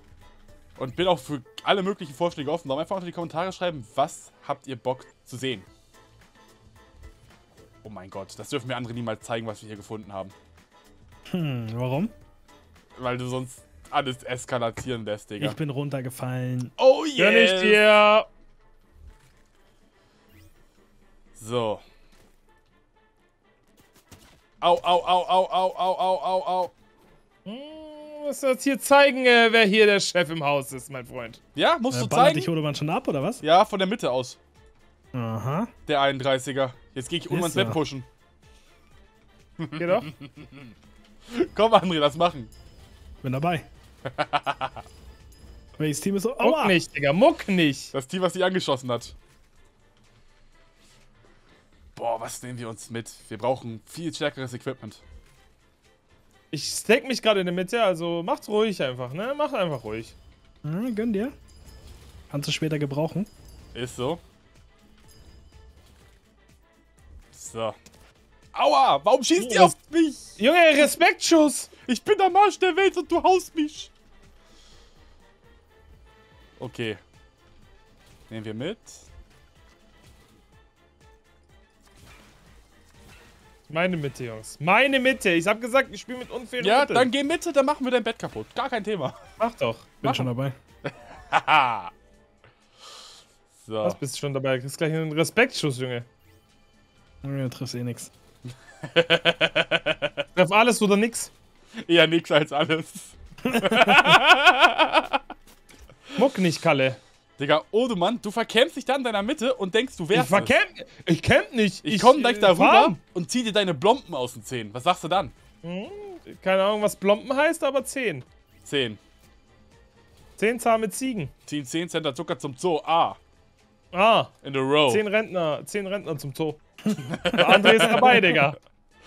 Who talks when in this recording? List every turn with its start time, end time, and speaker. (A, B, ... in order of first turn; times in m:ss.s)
0:00.8-0:05.7 A
0:07.8-0:10.3 A
0:11.3-0:12.1 B
0:13.0-0:15.6 A
0:15.4-0:16.7 B
0:16.8-0:17.8 A
0:17.2-0:18.3 C
0:21.4-0:21.8 A
0:24.6-0:26.7 A
0:27.5-0:31.4 C
0:31.6-0:32.5 A
0:31.9-0:33.4 B
0:33.4-0:34.4 A
0:35.1-0:35.7 B
0:35.9-0:38.1 A
0:37.3-0:37.8 B
0:39.6-0:40.7 A
0:39.8-0:40.1 C
0:41.3-0:42.5 A
0:43.2-0:43.7 B
0:44.1-0:44.8 A
0:45.8-0:46.8 B
0:46.4-0:47.9 C
0:47.9-0:49.2 A
0:52.0-0:55.0 A
0:56.5-1:00.2 C
1:00.6-1:01.3 B
1:02.3-1:03.3 B
1:03.7-1:04.2 A
1:07.3-1:07.8 A
1:08.5-1:10.4 A
1:09.4-1:09.8 C
1:10.4-1:11.7 C
1:11.9-1:13.9 A
1:16.6-1:17.0 A
1:18.3-1:19.1 A
1:23.7-1:27.1 C
1:26.6-1:29.2 A
1:29.4-1:30.0 C
1:30.0-1:30.6 B
1:30.0-1:30.3 A
1:30.9-1:31.9 A
1:33.6-1:34.0 A
1:33.8-1:36.1 C
1:37.2-1:38.1 B
1:38.8-1:40.2 A
1:40.4-1:41.3 C
1:41.8-1:45.2 A
1:43.4-1:44.2 B
1:46.1-1:47.0 C
1:47.4-1:50.6 A
1:50.1-1:53.0 C
1:51.8-1:55.3 A
1:55.6-1:58.3 C
1:58.6-1:59.0 A
2:00.4-2:01.3 C
2:01.5-2:03.2 A
2:03.9-2:06.6 C
2:04.4-2:05.0 A
2:06.8-2:08.2 B
2:06.9-2:08.1 A
2:07.3-2:08.6 C